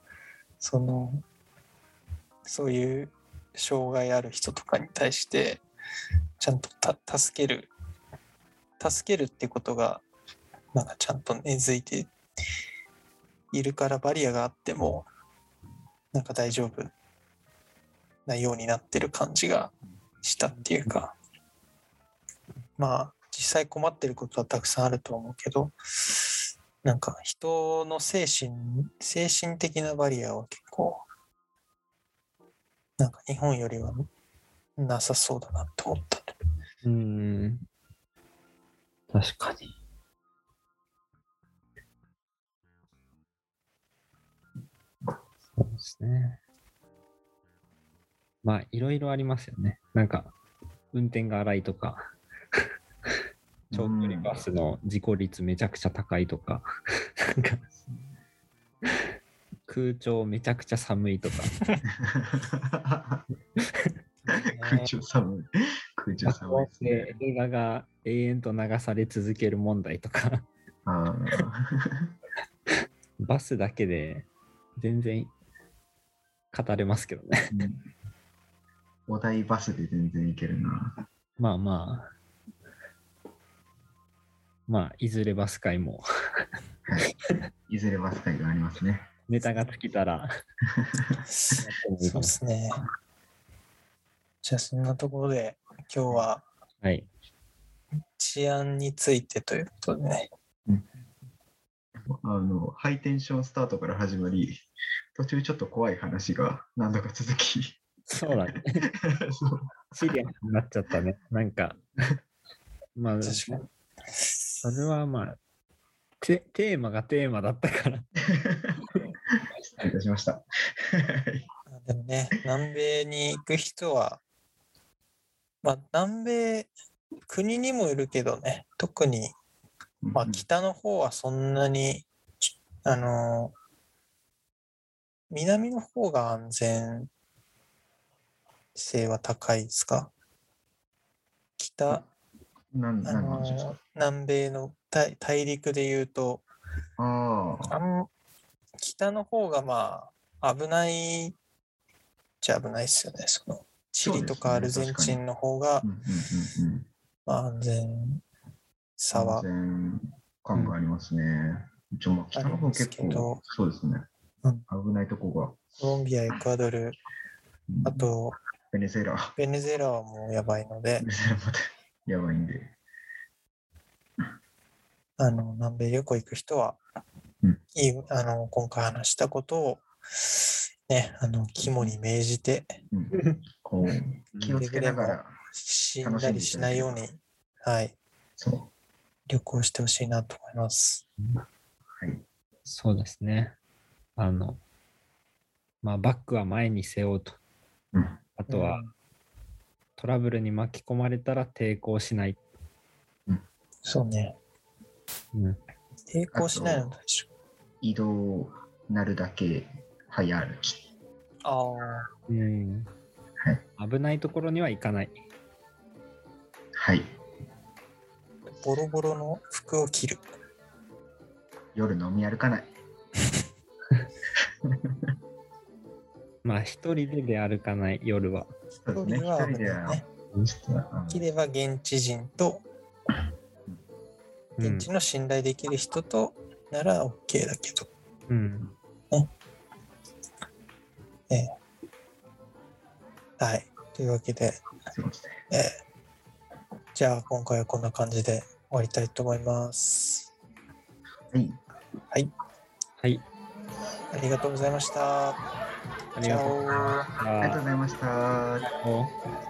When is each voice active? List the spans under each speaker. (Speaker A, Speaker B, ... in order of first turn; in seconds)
Speaker A: 0.6-1.2, 2.5-5.6, 6.4-7.7, 8.8-10.0, 10.7-12.1, 13.5-15.1, 16.1-16.9, 18.3-21.1, 22.8-25.8, 26.8-31.0, 33.0-34.1, 34.8-36.3, 64.2-64.9, 91.3-92.8, 94.4-96.5, 98.2-100.3, 113.2-113.6, 121.7-124.2, 125.6-126.7, 127.3-129.3, 130.2-132.1, 132.8-133.5, 135.3-137.1, 138.8-140.1, 141.6-142.1, 143.0-146.5, 147.7-148.1, 148.8-151.4, 152.4-155.9, 157.3-158.2, 159.0-159.5, 162.4-163.4, 165.8-167.0, 167.8-168.4, 169.4-171.1, 175.2-176.8, 177.8-182.7, 184.6-188.0, 189.3-191.1, 198.5-198.9, 203.8-204.4, 206.1-207.3, 211.4-212.1, 218.6-220.2, 228.9-230.1, 231.1-232.7, 234.6-237.9, 243.4-244.6, 245.5-245.8, 246.9-250.3, 254.1-255.4, 256.2-257.1
Speaker B: 36.8-37.6, 39.1-39.7, 45.6-46.4, 48.4-50.3, 50.9-52.1, 53.7-56.7, 57.2-57.6, 59.7-61.5, 66.3-70.5, 73.2-75.3, 76.5-77.5, 81.4-82.1, 84.7-86.0, 89.3-90.3, 91.6-92.3, 96.8-97.1, 108.1-108.8, 110.0-111.8, 113.0-113.6, 114.6-115.4, 116.2-118.1, 184.3-184.6, 192.7-193.5, 194.2-194.6, 195.8-197.4, 198.4-198.8, 200.0-202.4, 205.3-205.6, 212.3-212.9, 213.8-215.2, 226.4-228.5, 234.6-234.9, 238.3-238.6, 256.1-257.6, 258.7-259.1
Speaker C: 53.7-54.5, 57.8-58.2, 62.0-63.2, 64.3-67.1, 70.8-72.1, 77.5-77.8, 79.1-81.0, 87.7-89.1, 90.8-91.2, 102.0-104.6, 105.2-107.8, 109.0-110.1, 118.4-118.8, 119.7-121.5, 130.0-130.4, 142.7-143.8, 147.0-147.8, 154.0-155.2, 155.8-156.9, 159.1-164.1, 164.7-165.8, 167.7-168.1, 168.7-169.3, 171.0-172.8, 181.6-181.9, 182.9-185.4, 186.0-187.1, 188.4-188.7, 192.0-192.2, 197.9-198.2, 206.3-206.9, 207.8-210.8, 216.8-217.1, 221.7-222.7, 224.7-225.0, 228.8-231.3, 244.9-245.4, 251.3-251.6, 257.4-258.7